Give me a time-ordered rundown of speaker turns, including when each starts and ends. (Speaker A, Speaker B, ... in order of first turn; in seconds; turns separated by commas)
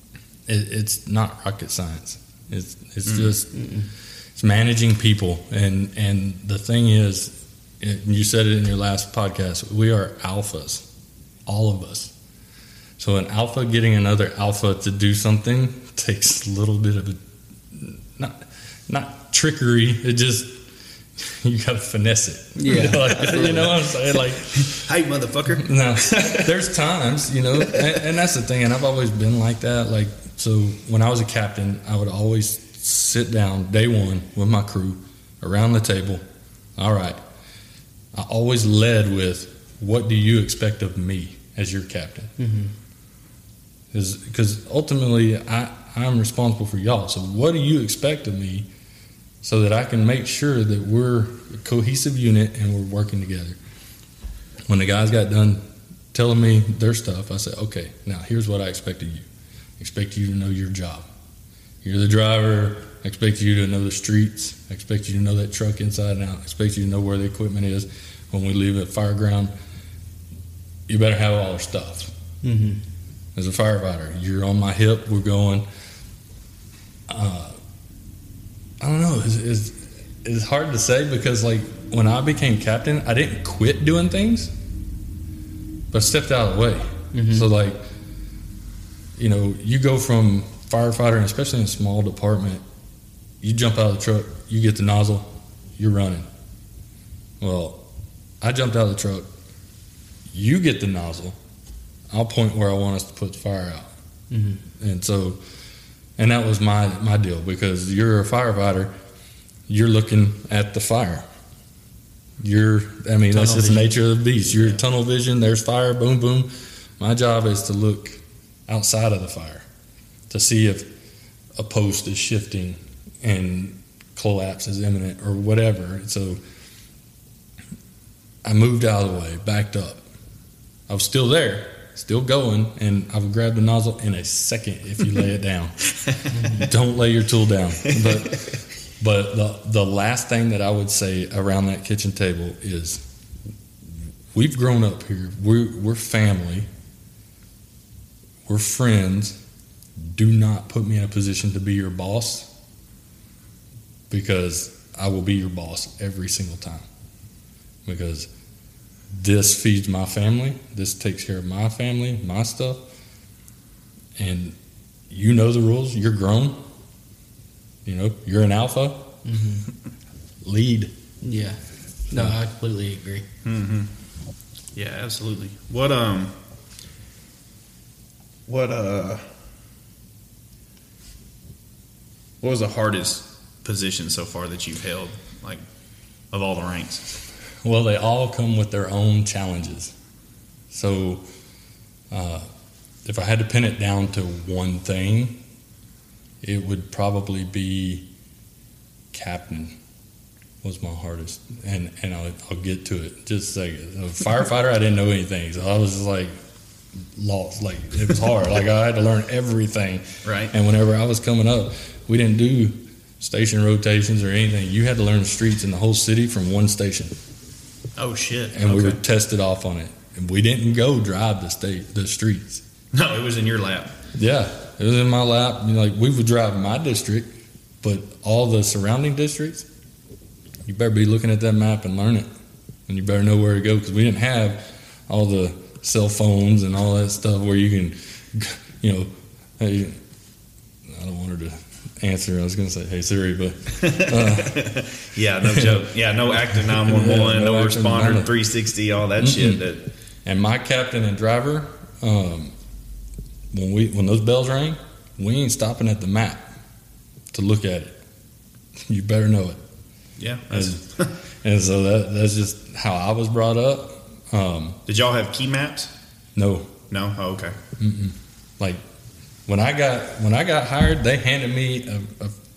Speaker A: 0.5-3.7, Speaker B: 3.0-3.3, Speaker C: 3.5-3.9, Speaker A: 4.3-10.8, Speaker A: 11.4-12.1, Speaker A: 13.0-17.2, Speaker A: 17.7-20.6, Speaker A: 21.2-24.8, Speaker C: 22.6-23.7, Speaker B: 24.5-26.6, Speaker A: 25.6-36.2, Speaker B: 27.7-28.0, Speaker A: 36.8-37.2, Speaker A: 38.1-42.3, Speaker C: 42.4-42.7, Speaker A: 43.9-48.7, Speaker A: 49.4-53.6, Speaker A: 54.7-55.6, Speaker A: 56.1-59.3, Speaker A: 59.8-61.1, Speaker A: 61.8-69.5, Speaker A: 70.9-72.1, Speaker C: 72.4-72.8, Speaker A: 73.3-75.6, Speaker A: 77.1-77.6, Speaker A: 78.8-84.5, Speaker A: 85.9-87.8, Speaker C: 87.1-87.5, Speaker A: 89.2-92.6, Speaker A: 93.4-96.3, Speaker A: 97.4-97.8, Speaker A: 98.4-99.3, Speaker A: 100.3-101.4, Speaker A: 102.1-103.9, Speaker C: 104.3-104.6, Speaker A: 104.8-105.4, Speaker A: 106.2-108.9, Speaker A: 109.7-111.2, Speaker A: 112.4-119.6, Speaker C: 113.3-113.9, Speaker C: 114.5-114.8, Speaker A: 120.3-120.9, Speaker A: 121.5-126.4, Speaker A: 128.4-130.1, Speaker A: 130.9-135.8, Speaker C: 136.3-136.7, Speaker A: 136.5-143.0, Speaker A: 144.3-146.7, Speaker A: 148.4-149.4, Speaker A: 149.9-152.5, Speaker A: 154.1-156.9, Speaker A: 157.8-158.3, Speaker A: 159.1-162.8, Speaker A: 164.2-164.6, Speaker A: 165.1-166.6, Speaker A: 167.8-169.1, Speaker C: 169.2-169.7, Speaker A: 170.4-170.9, Speaker C: 171.2-171.6, Speaker C: 172.1-173.2, Speaker B: 173.4-173.9, Speaker B: 174.7-176.3, Speaker B: 178.5-179.2, Speaker B: 182.4-185.6, Speaker B: 186.3-187.1, Speaker A: 187.6-189.9, Speaker A: 190.7-191.2, Speaker A: 192.1-192.5, Speaker A: 193.0-195.4, Speaker A: 196.4-198.1, Speaker A: 199.1-199.7, Speaker A: 200.6-206.3, Speaker A: 207.1-217.1, Speaker B: 210.2-210.5, Speaker B: 218.0-219.0, Speaker A: 218.5-222.6, Speaker B: 222.9-223.9, Speaker A: 224.1-227.3, Speaker A: 227.8-229.7, Speaker A: 230.6-232.3, Speaker A: 232.9-240.0, Speaker A: 240.9-244.7, Speaker B: 243.8-249.9, Speaker A: 245.4-245.9, Speaker A: 246.5-248.3, Speaker A: 249.2-249.6, Speaker A: 250.2-252.5, Speaker A: 253.5-256.5, Speaker A: 257.3-258.0, Speaker A: 258.8-259.6, Speaker B: 260.2-261.1, Speaker A: 260.5-260.8, Speaker A: 261.4-264.8, Speaker B: 264.9-265.9, Speaker A: 266.4-266.8, Speaker B: 266.9-267.6, Speaker A: 267.8-268.8, Speaker A: 269.5-272.4